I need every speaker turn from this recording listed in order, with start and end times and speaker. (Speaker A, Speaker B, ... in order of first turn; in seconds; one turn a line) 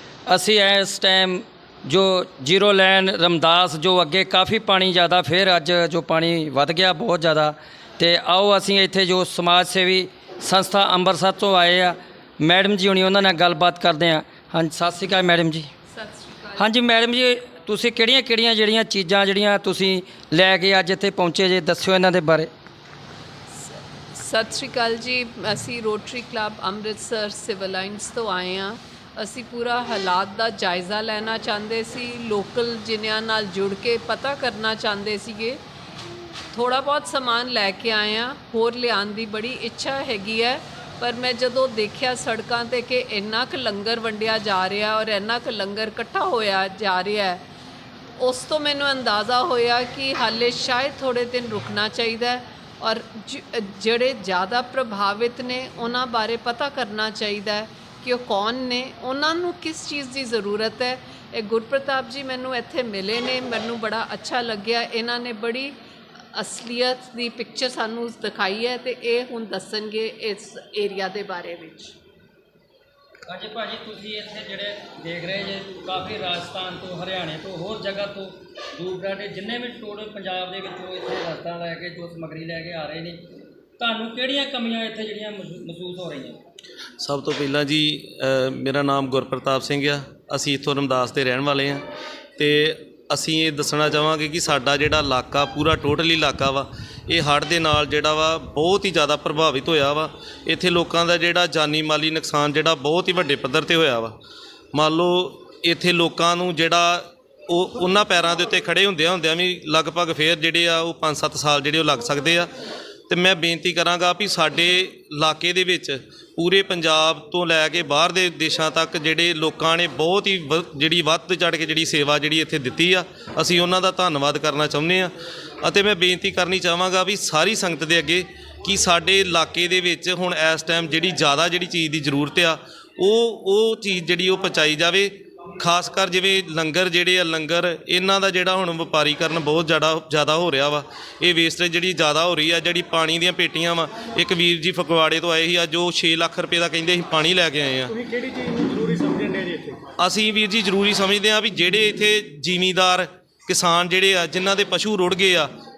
Speaker A: 0.3-15.7
Speaker B: 15.9-16.7
Speaker A: 16.6-22.5
Speaker B: 23.5-35.6
Speaker B: 36.5-47.4
Speaker B: 48.2-65.8
Speaker B: 66.3-72.0
Speaker A: 73.3-83.2
Speaker A: 83.8-86.4
Speaker C: 87.0-91.8
Speaker C: 92.4-104.2
Speaker C: 104.7-112.5
Speaker C: 113.1-147.9
Speaker D: 147.9-149.8
Speaker C: 150.0-155.5